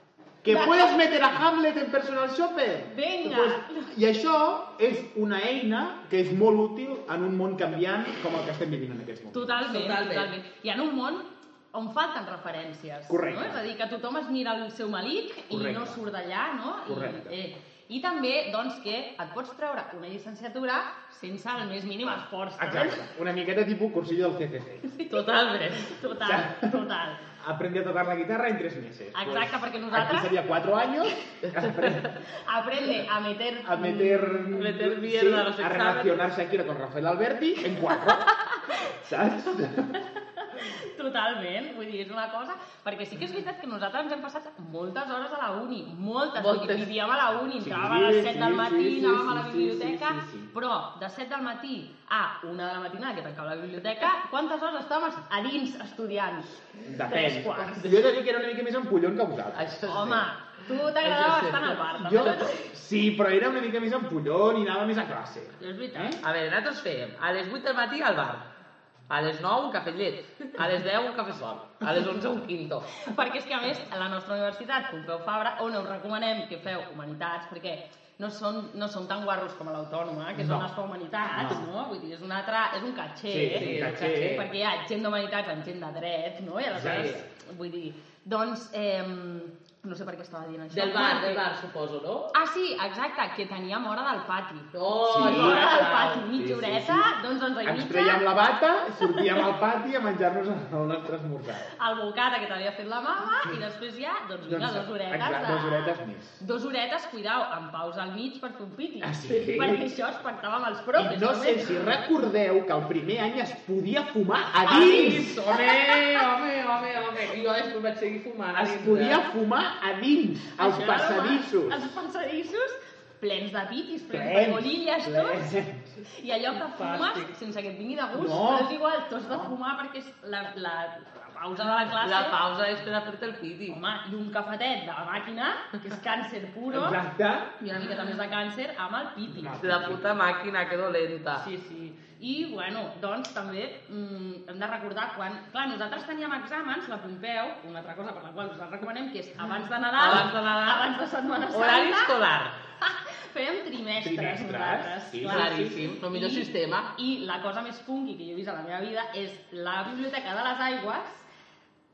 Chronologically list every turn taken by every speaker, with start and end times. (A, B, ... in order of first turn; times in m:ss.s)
0:00.4-0:09.6 A
0:00.5-0:01.0 B
0:02.9-0:03.9 B
0:09.3-0:23.0 B
0:09.6-0:10.3 C
0:13.1-0:13.6 A
0:15.5-0:16.0 A
0:16.9-0:17.4 A
0:22.6-0:24.9 A
0:24.8-0:27.2 B
0:25.1-0:26.0 C
0:26.2-0:26.8 A
0:27.4-0:32.1 A
0:29.1-0:30.3 B
0:32.3-0:34.5 B
0:33.6-0:38.3 A
0:34.5-0:36.3 C
0:38.9-0:39.9 A
0:40.4-0:58.0 B
0:46.4-0:46.9 C
0:47.6-0:50.5 A
0:56.9-1:00.2 A
0:59.5-1:00.2 C
0:59.9-1:02.7 B
1:01.0-1:02.2 C
1:02.0-1:06.2 A
1:05.6-1:06.2 B
1:06.2-1:08.5 C
1:09.1-1:12.9 C
1:13.0-1:31.4 B
1:20.4-1:20.7 A
1:21.3-1:21.6 A
1:23.3-1:24.4 A
1:23.5-1:24.5 C
1:26.7-1:27.3 A
1:30.7-1:32.3 C
1:32.3-1:38.3 B
1:34.7-1:36.3 C
1:35.0-1:35.8 A
1:36.3-1:37.1 A
1:37.6-1:41.7 A
1:39.0-1:39.4 B
1:41.8-1:52.0 B
1:44.5-1:46.4 A
1:49.0-1:49.8 A
1:51.0-1:55.4 A
1:54.6-1:59.2 C
1:54.7-1:56.2 B
1:58.5-2:01.9 A
2:00.6-2:05.5 B
2:04.1-2:06.0 A
2:06.1-2:12.4 B
2:06.8-2:07.3 C
2:08.1-2:08.7 A
2:12.0-2:13.8 C
2:13.7-2:17.0 B
2:16.7-2:17.5 A
2:17.6-2:19.6 B
2:19.3-2:20.1 A
2:19.6-2:21.4 C
2:21.4-2:32.2 B
2:30.0-2:30.9 C
2:31.5-2:32.6 C
2:32.8-2:41.3 B
2:34.0-2:35.9 A
2:35.2-2:36.9 C